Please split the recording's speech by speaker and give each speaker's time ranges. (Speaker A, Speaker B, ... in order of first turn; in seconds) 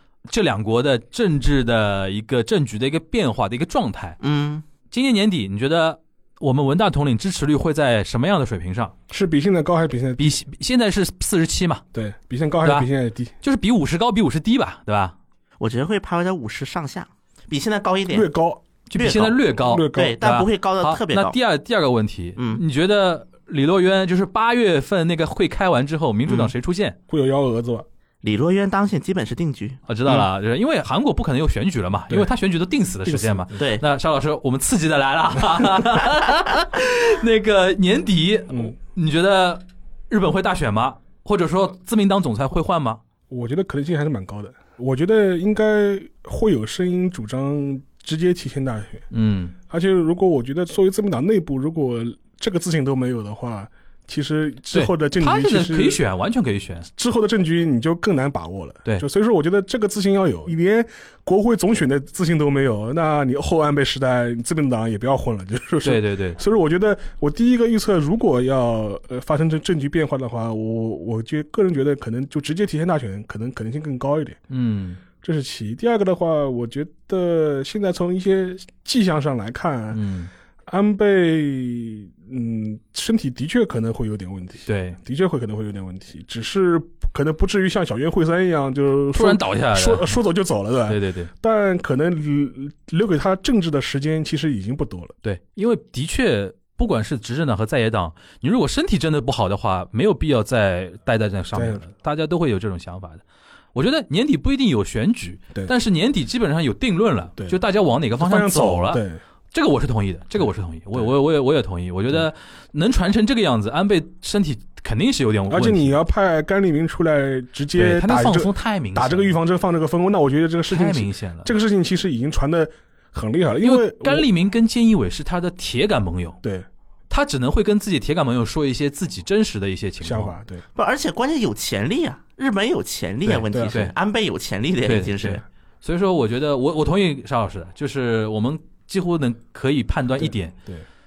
Speaker A: 0.3-4.2, 4.9-8.9, 10.2-11.8, 12.6-12.9, 13.4-15.1, 18.9-27.0, 29.9-43.0, 49.1-49.5, 54.7-56.9, 65.8-66.4, 74.5-75.0, 79.9-80.3, 84.7-85.0, 89.1-90.2, 90.9-91.3, 95.2-103.2, 103.7-115.9, 117.8-119.3, 120.7-121.5, 123.6-126.4, 127.1-130.3, 133.2-133.9, 134.8-140.5
Speaker B: 4.2-4.6, 15.6-18.3, 19.0-19.3, 19.9-21.4, 26.2-26.5, 28.2-30.2, 33.5-33.8, 130.8-135.4
Speaker C: 9.1-10.3, 11.9-13.3, 18.1-18.6, 19.6-20.2, 27.1-27.9, 33.0-33.6, 43.3-49.0, 49.7-56.0, 57.0-74.4, 75.2-80.0, 80.7-95.1, 101.5-101.8, 108.2-109.2, 115.5-124.2, 130.0-130.6, 140.2-140.8